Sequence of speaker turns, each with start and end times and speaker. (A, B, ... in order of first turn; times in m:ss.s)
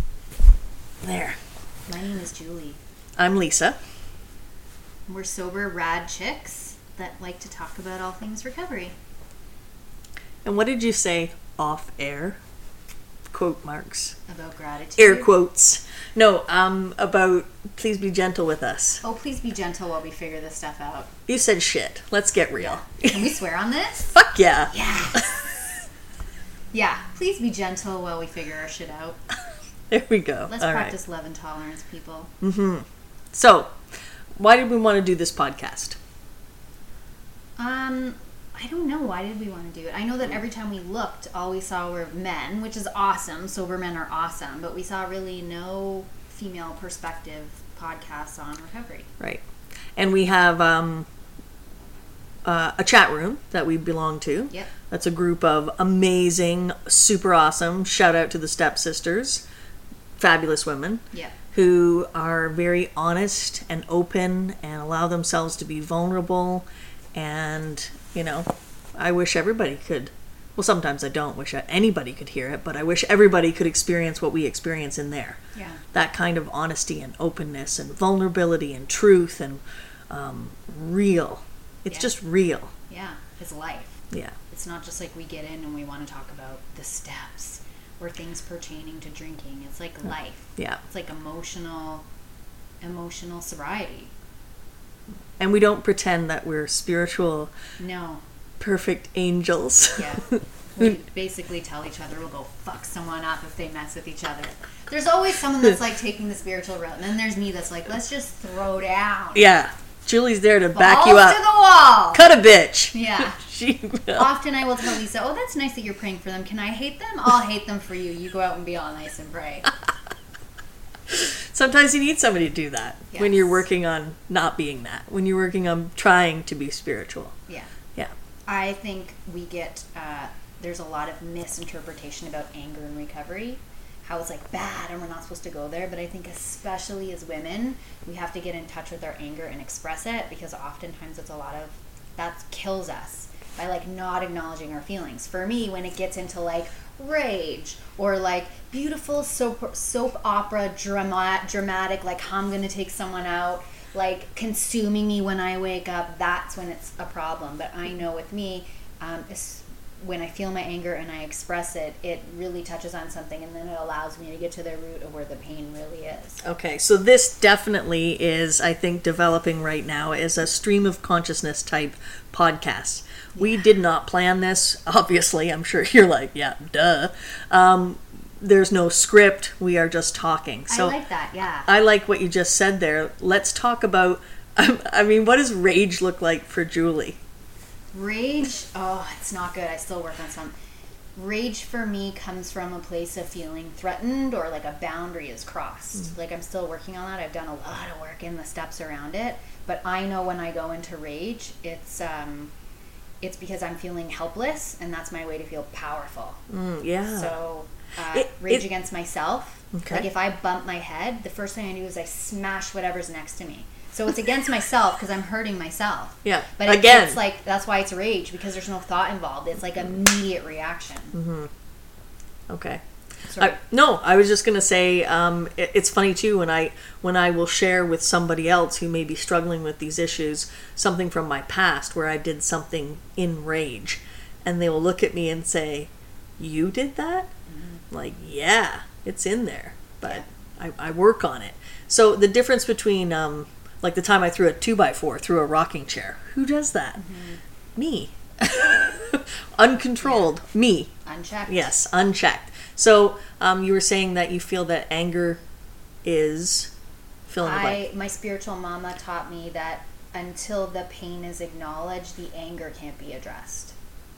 0:01.0-0:01.4 A
0:01.9-0:02.8 B
0:03.2-0:03.8 A
0:05.1-0:08.9 B
0:10.4-0:12.4 A
0:13.3-0:14.2 A
0:14.3-0:15.3 B
0:15.0-0:19.0 A
0:19.0-0:21.1 B
0:21.3-0:23.1 A
0:22.6-0:24.2 B
0:24.2-0:25.3 A
0:24.7-0:25.3 B
0:26.7-0:29.2 B
0:29.9-0:30.9 A
0:30.5-0:32.3 B
0:32.4-0:33.7 A
0:34.4-0:36.0 A
0:37.6-0:49.1 B
0:50.0-0:51.1 A
0:52.4-0:59.4 A
1:00.2-1:01.0 A
1:01.1-1:01.4 B
1:01.5-1:15.4 A
1:15.5-1:15.8 B
1:15.9-1:22.7 A
1:22.9-1:24.0 B
1:24.5-1:32.0 B
1:32.8-1:34.1 B
1:35.4-1:37.5 A
1:37.8-1:38.2 B
1:38.6-1:40.4 A
1:40.0-1:49.5 B
1:49.3-1:51.4 A
1:50.7-1:52.2 B
1:52.1-1:54.3 A
1:52.9-1:53.4 B
1:54.1-1:59.7 B
2:01.1-2:07.3 A
2:03.1-2:03.6 B
2:08.5-2:46.4 B
2:46.4-3:01.0 A
3:00.7-3:01.7 B
3:01.7-3:07.2 A
3:07.9-3:10.5 B
3:11.1-3:22.5 B
3:23.2-3:26.4 B
3:26.5-3:27.3 A
3:27.1-3:41.2 B
3:28.1-3:28.6 A
3:29.7-3:30.0 A
3:36.2-3:37.2 A
3:41.1-3:41.5 A
3:42.5-3:42.8 A
3:43.3-3:43.6 B
3:43.4-3:57.3 A
3:57.5-3:57.8 B
3:57.9-4:07.0 A
4:07.0-4:07.4 B
4:07.8-4:10.9 A
4:11.0-4:11.7 B
4:11.5-4:15.4 A
4:16.0-4:16.7 A
4:17.3-4:17.8 A
4:17.4-4:23.7 B